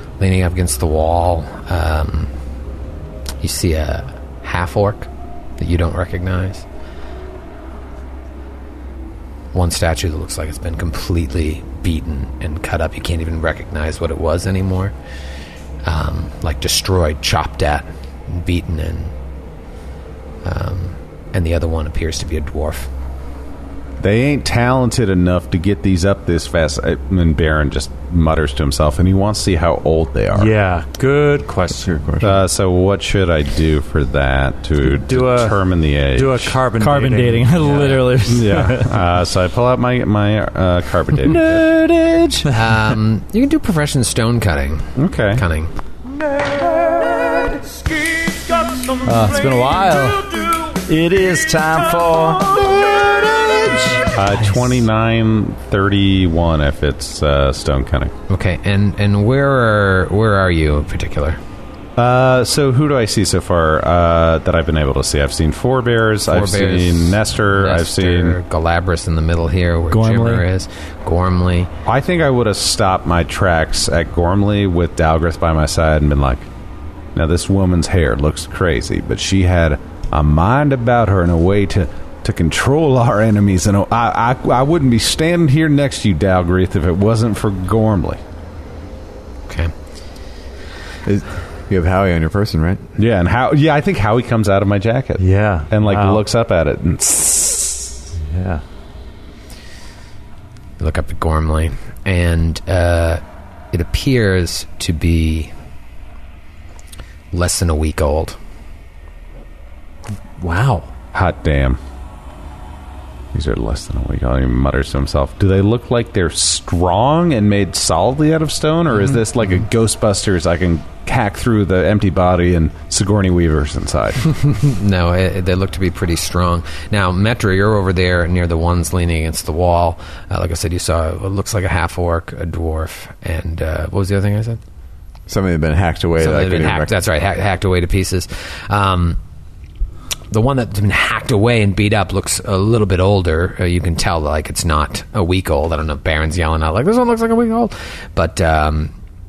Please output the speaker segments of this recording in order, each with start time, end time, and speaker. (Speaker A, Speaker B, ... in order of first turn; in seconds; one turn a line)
Speaker A: 0.2-2.3
Speaker A: 3.4-6.6
Speaker A: 9.5-14.9
Speaker A: 15.8-19.1
Speaker A: 20.4-22.9
Speaker B: 24.0-30.5
Speaker C: 30.3-32.1
Speaker D: 31.9-32.3
Speaker B: 32.2-36.6
Speaker C: 34.8-38.2
Speaker E: 36.8-38.9
Speaker B: 38.3-41.6
Speaker E: 41.2-42.5
Speaker A: 42.5-45.7
Speaker B: 44.9-45.4
Speaker E: 49.0-54.1
Speaker B: 54.1-58.1
Speaker A: 58.3-61.4
Speaker B: 62.0-68.4
Speaker A: 66.2-71.7
Speaker E: 69.9-70.5
Speaker B: 71.8-76.5
Speaker B: 77.1-88.2
Speaker A: 89.5-89.7
Speaker D: 91.0-92.8
Speaker B: 93.0-97.9
Speaker C: 95.2-96.2
Speaker C: 98.3-98.6
Speaker A: 100.8-105.5
Speaker A: 107.3-108.4
Speaker C: 110.4-110.9
Speaker B: 111.1-111.8
Speaker B: 113.3-124.2
Speaker A: 124.3-134.6
Speaker D: 135.3-136.9
Speaker A: 136.2-139.2
Speaker A: 140.3-148.9